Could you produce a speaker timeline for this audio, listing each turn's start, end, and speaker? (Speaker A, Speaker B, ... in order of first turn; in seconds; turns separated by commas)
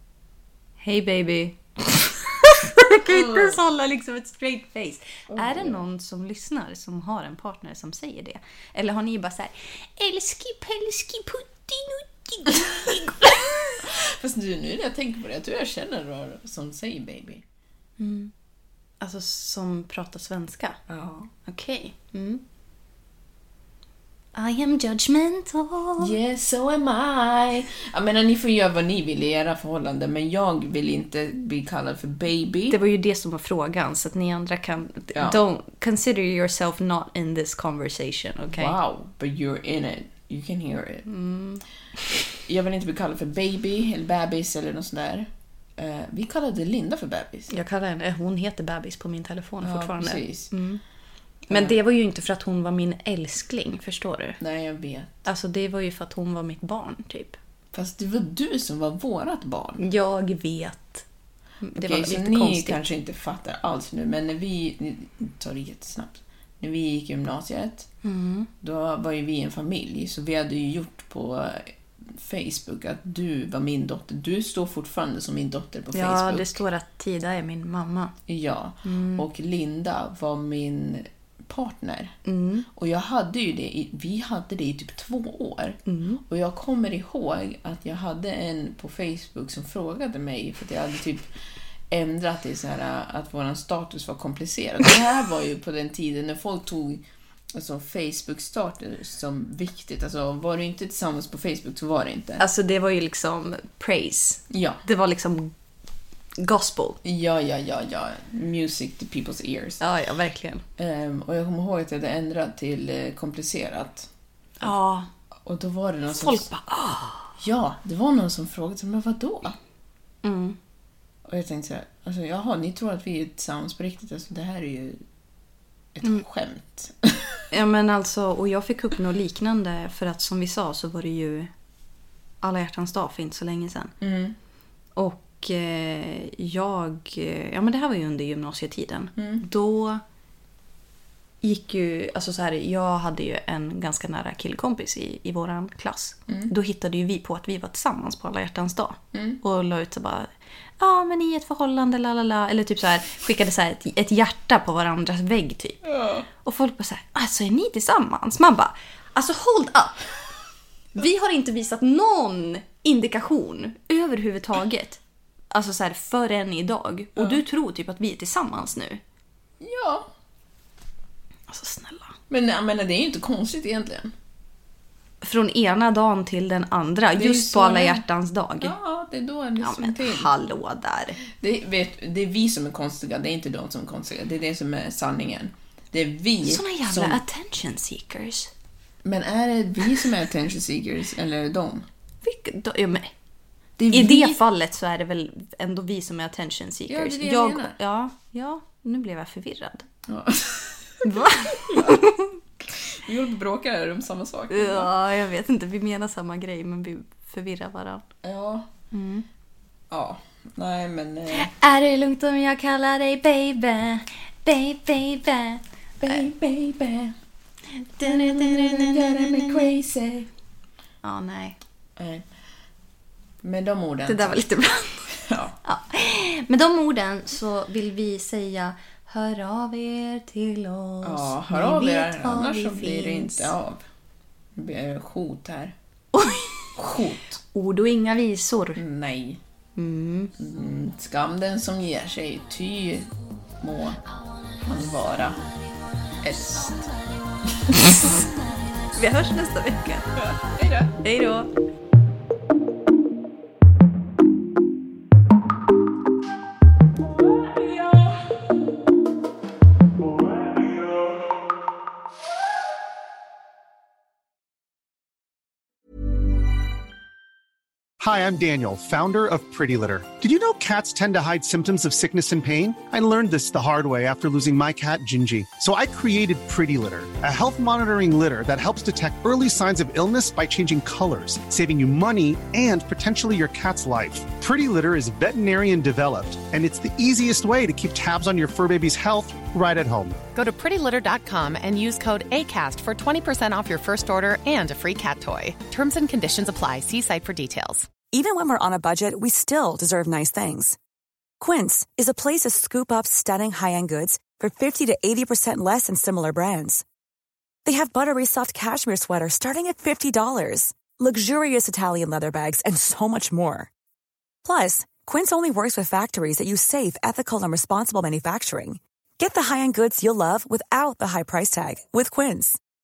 Speaker A: 0.8-13.8, Speaker B: 3.1-3.6, Speaker B: 5.3-5.8, Speaker B: 13.8-17.4, Speaker A: 18.0-18.3, Speaker A: 19.0-20.8, Speaker B: 20.9-21.3, Speaker A: 21.4-22.4, Speaker A: 24.4-26.1, Speaker B: 26.0-32.8, Speaker A: 32.7-38.8, Speaker B: 38.5-41.1, Speaker A: 41.1-42.2, Speaker B: 42.3-47.5, Speaker A: 47.5-50.8, Speaker B: 49.6-50.5, Speaker B: 51.5-51.8, Speaker A: 51.5-54.4, Speaker B: 54.4-55.3, Speaker A: 55.3-57.4, Speaker B: 57.7-59.8, Speaker A: 59.8-61.0, Speaker A: 61.6-62.9, Speaker B: 61.8-67.9, Speaker A: 68.0-68.5, Speaker B: 68.6-76.6, Speaker A: 75.9-78.1, Speaker B: 78.3-82.2, Speaker A: 78.8-79.3, Speaker A: 82.2-82.7, Speaker B: 82.7-91.3, Speaker A: 85.9-86.2, Speaker B: 91.9-102.5, Speaker A: 102.4-105.5, Speaker B: 104.5-104.8, Speaker A: 106.4-107.0, Speaker B: 107.0-109.8, Speaker A: 109.8-110.6, Speaker B: 110.8-114.1, Speaker A: 114.6-115.1, Speaker B: 115.4-116.5, Speaker A: 116.1-117.3, Speaker B: 117.4-119.6, Speaker A: 120.2-120.6, Speaker B: 121.2-125.0, Speaker B: 125.9-127.4, Speaker A: 127.5-131.5, Speaker A: 132.4-133.9, Speaker B: 134.0-134.4, Speaker A: 135.0-140.0, Speaker B: 139.2-139.4, Speaker A: 141.4-155.8, Speaker B: 146.3-146.5, Speaker B: 149.1-149.4, Speaker B: 155.8-156.3, Speaker A: 156.4-160.1, Speaker A: 160.9-165.0, Speaker A: 165.5-169.0, Speaker B: 169.6-170.1, Speaker A: 171.5-172.2, Speaker B: 172.3-174.1, Speaker A: 175.2-178.7, Speaker B: 177.2-178.0, Speaker B: 178.6-180.3, Speaker A: 179.6-181.2, Speaker B: 181.3-187.2, Speaker A: 186.4-188.5, Speaker B: 189.0-191.9, Speaker A: 192.2-193.1, Speaker B: 193.8-194.4, Speaker A: 193.9-199.9, Speaker B: 196.9-197.8, Speaker B: 200.1-202.0, Speaker A: 201.0-202.4, Speaker B: 202.6-204.9, Speaker A: 204.5-208.0, Speaker B: 208.2-208.7, Speaker A: 208.9-209.2, Speaker B: 209.9-211.5, Speaker A: 211.3-215.6, Speaker B: 216.0-217.2, Speaker A: 217.7-219.7, Speaker B: 218.0-220.3, Speaker A: 221.0-221.6, Speaker B: 222.0-222.2, Speaker B: 223.4-224.4, Speaker A: 224.1-225.1, Speaker B: 225.1-225.6, Speaker A: 225.7-233.5, Speaker B: 231.0-233.8, Speaker B: 234.6-235.8, Speaker A: 236.1-236.7, Speaker B: 236.8-237.4, Speaker A: 237.5-238.8, Speaker B: 238.8-239.4, Speaker A: 239.8-240.3, Speaker B: 240.4-244.0, Speaker B: 244.6-245.5, Speaker B: 246.2-246.9, Speaker B: 247.7-248.0, Speaker A: 248.9-250.4, Speaker B: 250.2-251.0, Speaker A: 251.0-251.5, Speaker B: 257.4-258.1, Speaker C: 268.0-290.2, Speaker D: 290.3-297.9, Speaker E: 298.0-300.8, Speaker E: 301.4-306.8, Speaker E: 307.7-313.7, Speaker E: 314.4-322.6